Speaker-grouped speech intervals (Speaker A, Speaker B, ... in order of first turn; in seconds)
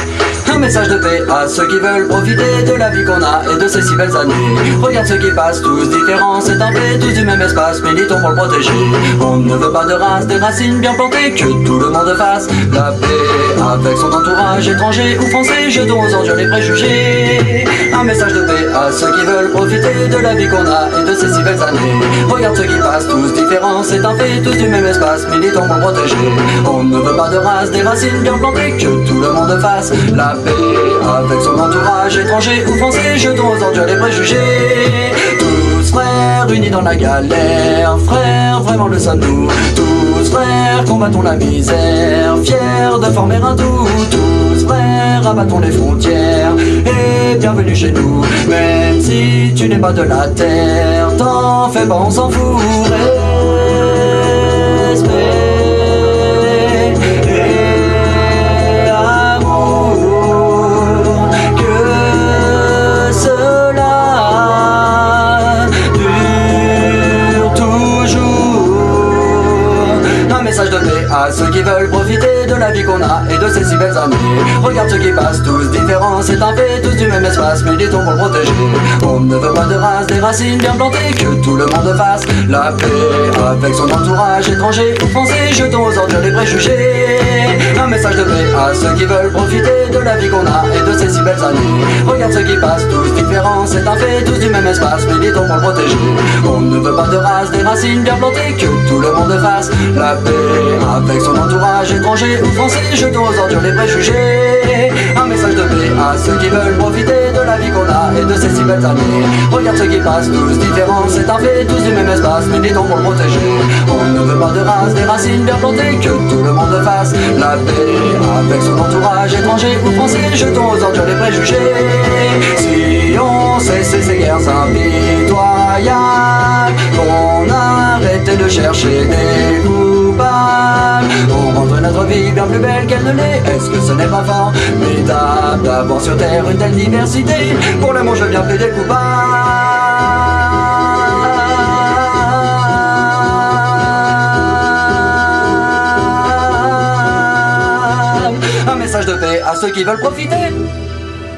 Speaker A: 0.5-150.6